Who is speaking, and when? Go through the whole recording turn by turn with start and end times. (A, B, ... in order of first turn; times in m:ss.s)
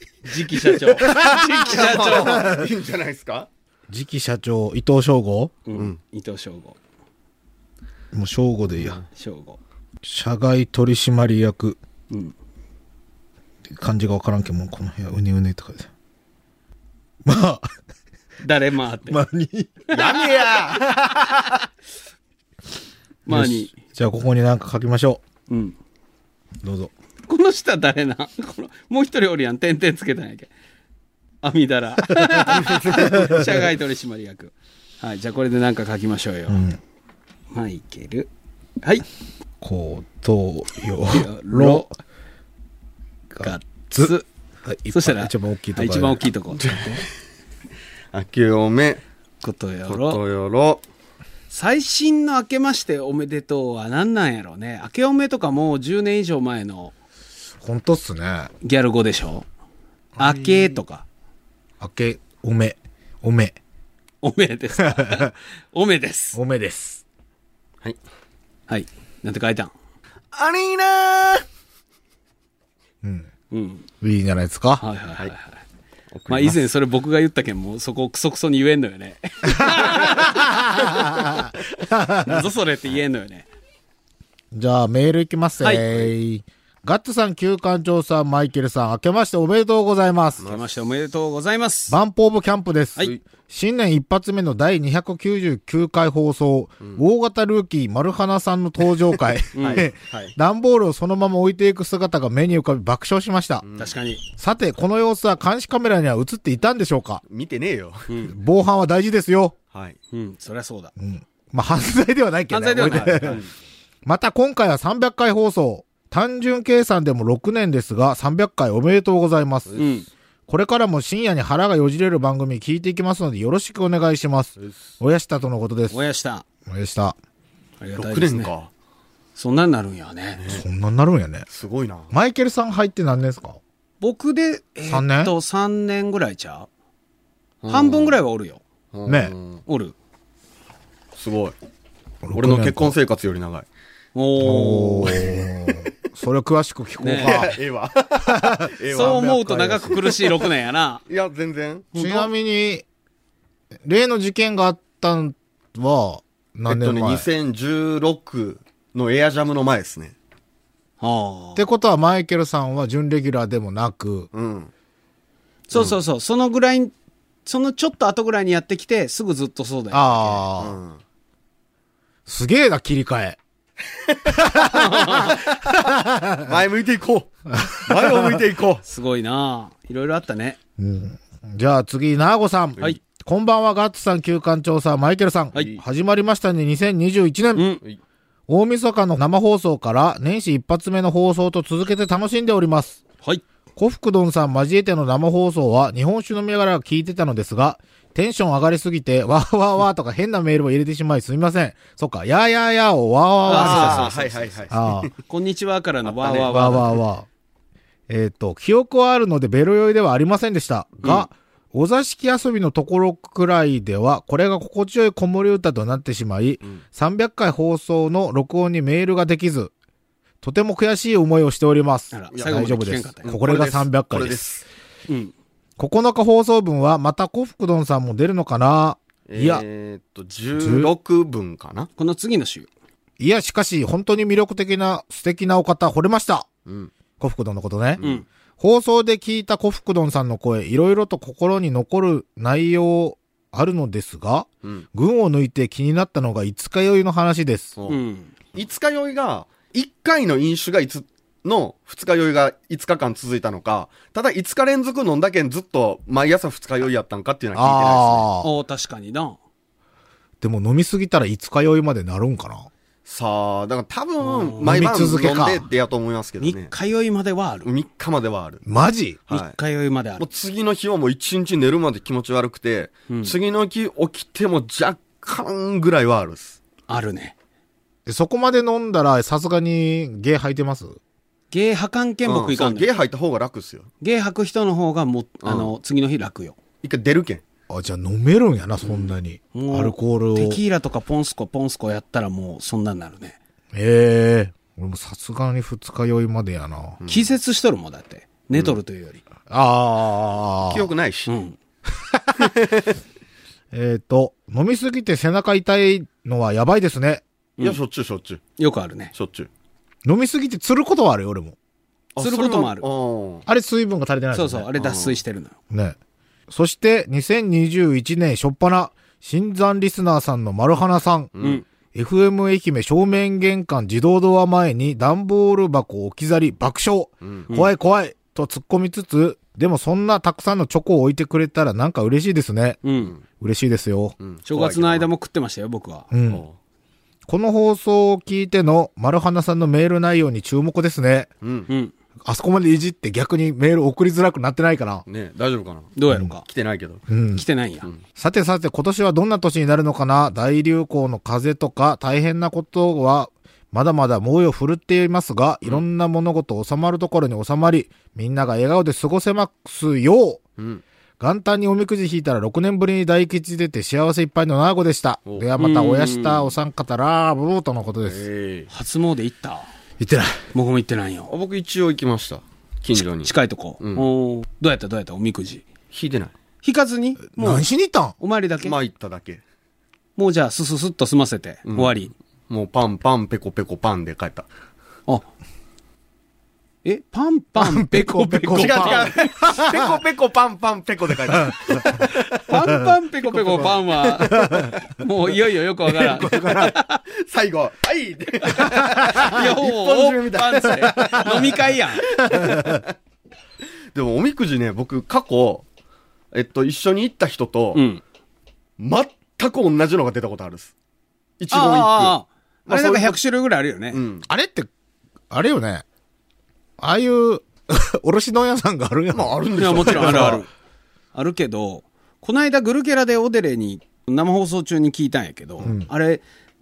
0:00.2-0:02.5 A
0:01.0-0:02.7 B
0:01.1-0:03.5 C
0:03.9-0:05.5 B
0:05.6-0:06.8 A
0:08.1-0:09.0 B
0:09.1-0:09.6 A
0:10.0-0:11.8 B
0:13.7-0:15.9 B
0:17.2-0:17.7 B
0:18.4-0:19.2 A
0:19.1-0:19.8 B
0:19.9-0:20.2 A
0:19.9-0:21.0 C
0:20.8-0:21.3 B
0:23.2-0:23.7 A
0:23.3-0:25.2 B
0:25.5-0:25.8 A
0:26.6-0:26.9 B
0:27.3-0:30.5 A
0:31.4-0:36.6 A
0:32.3-0:33.5 B
0:32.6-0:33.2 C
0:36.5-0:36.8 B
0:37.5-0:38.3 A
0:39.6-0:41.9 B
0:41.1-0:41.9 A
0:43.3-0:46.2 B
0:43.4-0:44.2 A
0:44.9-0:47.0 A
0:46.6-0:47.1 C
0:48.1-0:49.0 C
0:49.4-0:50.2 A
0:49.9-0:50.8 C
0:51.5-0:56.9 A
0:57.6-0:58.5 B
0:58.6-0:59.5 A
1:00.2-1:00.8 B
1:00.2-1:01.0 A
1:01.8-1:03.6 B
1:04.2-1:06.4 A
1:04.8-1:05.2 B
1:06.3-1:07.0 B
1:08.7-1:09.7 A
1:10.3-1:11.4 C
1:13.0-1:13.3 B
1:13.5-1:13.8 A
1:14.0-1:14.8 B
1:14.8-1:15.6 A
1:16.1-1:16.6 C
1:16.3-1:20.4 A
1:19.6-1:22.4 B
1:22.2-1:23.4 A
1:24.5-1:30.5 B
1:25.6-1:25.9 A
1:30.4-1:32.0 A
1:31.9-1:43.6 B
1:39.5-1:40.3 A
1:39.6-1:39.8 C
1:43.6-1:43.9 C
1:43.8-1:44.2 A
1:44.4-1:47.2 B
1:47.3-1:48.1 C
1:48.2-1:49.5 B
1:49.7-1:50.0 C
1:50.1-1:50.9 A
1:51.0-1:53.4 B
1:52.5-1:53.5 A
1:54.0-1:59.8 B
1:59.8-2:00.1 A
2:00.5-2:06.0 B
2:05.9-2:06.4 A
2:06.7-2:07.2 B
2:07.8-2:08.5 A
2:08.0-2:08.7 C
2:09.4-2:10.5 A
2:10.4-2:10.6 C
2:10.5-2:11.4 B
2:11.5-2:12.1 C
2:12.1-2:13.6 B
2:14.0-2:16.7 A
2:14.9-2:15.3 B
2:17.6-2:18.2 C
2:17.7-2:18.6 A
2:18.9-2:19.6 C
2:19.0-2:19.3 B
2:19.7-2:19.9 A
2:21.2-2:21.5 C
2:22.2-2:22.9 B
2:22.3-2:23.7 C
2:24.1-2:25.4 A
2:24.4-2:27.6 B
2:27.0-2:27.4 A
2:27.1-2:29.3 C
2:28.2-2:30.1 B
2:28.9-2:31.0 A
2:29.9-2:30.2 C
2:31.1-2:32.0 C
2:31.9-2:32.3 A
2:31.9-2:32.8 B
2:33.8-2:37.2 B
2:36.7-2:40.1 C
2:41.0-2:41.6 A
2:41.5-2:44.3 B
2:44.3-2:44.7 C
2:45.7-2:46.9 A
2:47.4-2:50.4 A
2:49.9-2:50.8 B
2:50.6-2:51.0 C
2:52.3-2:53.4 B
2:54.3-2:56.5 B
2:54.7-2:55.4 A
2:55.0-2:58.8 C
2:57.5-2:58.4 B
2:58.8-3:00.6 A
3:00.8-3:07.7 B
3:05.6-3:05.8 C
3:07.5-3:07.8 A
3:08.5-3:13.0 B
3:13.8-3:25.1 B
3:23.5-3:24.3 A
3:23.5-3:25.1 C
3:25.3-3:27.0 A
3:26.0-3:27.0 C
3:26.5-3:27.3 B
3:28.1-3:39.7 B
3:40.4-3:44.4 B
3:42.1-3:43.3 A
3:42.3-3:42.6 C
3:43.2-3:44.6 C
3:45.8-3:49.6 B
3:49.3-3:51.9 C
3:50.6-3:50.9 B
3:52.0-3:52.7 A
3:53.2-3:56.5 B
3:56.6-3:56.9 C
3:57.2-3:58.0 B
3:58.6-4:07.8 B
4:07.9-4:08.3 A
4:08.5-4:18.2 C
4:17.5-4:18.5 B
4:18.4-4:19.4 A
4:20.4-4:22.7 B
4:23.0-4:26.7 C
4:24.2-4:24.7 A
4:24.6-4:25.6 B
4:26.4-4:27.7 A
4:27.6-4:28.6 C
4:28.6-4:29.2 B
4:29.3-4:29.5 C
4:29.3-4:30.2 A
4:30.2-4:36.6 C
4:33.1-4:33.3 A
4:36.9-4:37.3 A
4:38.0-4:41.0 B
4:41.5-4:42.9 A
4:42.2-4:43.9 C
4:44.0-4:46.6 A
4:45.4-4:45.7 C
4:46.8-4:47.4 C
4:47.7-4:50.6 B
4:49.5-4:53.4 A
4:53.7-4:57.0 B
4:57.0-4:57.3 C
4:57.1-4:59.2 A
4:58.5-4:58.8 C
4:59.5-5:00.9 B
5:00.6-5:01.3 C
5:01.3-5:01.6 A
5:02.0-5:02.5 B
5:02.4-5:03.0 C
5:03.7-5:07.2 B
5:07.6-5:08.4 C
5:08.6-5:09.1 A
5:09.1-5:09.5 C
5:10.0-5:11.6 B
5:12.2-5:13.4 C
5:12.2-5:12.8 A
5:13.5-5:14.7 B
5:14.3-5:15.5 A
5:14.8-5:15.2 C
5:15.7-5:16.0 B
5:16.5-5:21.3 B
5:21.4-5:21.6 C
5:21.9-5:34.2 B
5:27.2-5:27.5 C
5:32.8-5:33.1 A
5:34.2-5:35.1 C
5:34.5-5:36.1 A
5:36.1-5:36.4 B
5:36.3-5:36.5 C
5:37.3-5:41.3 B
5:41.4-5:41.7 C
5:42.2-5:45.0 B
5:45.0-5:47.0 C
5:46.0-5:46.4 A
5:47.1-5:47.4 B
5:47.3-5:47.9 A
5:48.2-6:00.4 B
6:01.2-6:08.2 B
6:05.6-6:06.5 A
6:08.0-6:08.7 C
6:08.7-6:09.7 A
6:10.0-6:10.4 B
6:10.5-6:11.3 A
6:11.3-6:14.0 C
6:12.9-6:15.6 A
6:15.9-6:16.3 C
6:16.6-6:17.6 A
6:17.4-6:18.2 B
6:18.2-6:18.7 A
6:18.6-6:19.4 C
6:20.2-6:22.1 A
6:21.6-6:22.0 C
6:22.5-6:24.5 C
6:26.8-6:29.3 A
6:27.6-6:30.0 B
6:28.5-6:32.4 C
6:32.4-6:37.0 A
6:33.3-6:34.3 C
6:34.3-6:34.8 B
6:35.8-6:36.7 B
6:37.2-6:42.9 C
6:38.6-6:39.4 B
6:39.1-6:42.1 A
6:40.8-6:41.5 B
6:42.2-6:42.8 B
6:43.9-6:45.6 C
6:46.3-6:47.8 C
6:47.7-6:48.0 A
6:48.8-6:50.7 C
6:51.4-6:53.2 C
6:51.5-6:54.0 A
6:53.9-6:54.3 C
6:54.3-6:54.7 B
6:55.3-6:55.8 B
6:56.8-7:00.4 B
6:59.1-7:00.4 C
6:59.6-7:00.5 A
7:01.1-7:06.2 A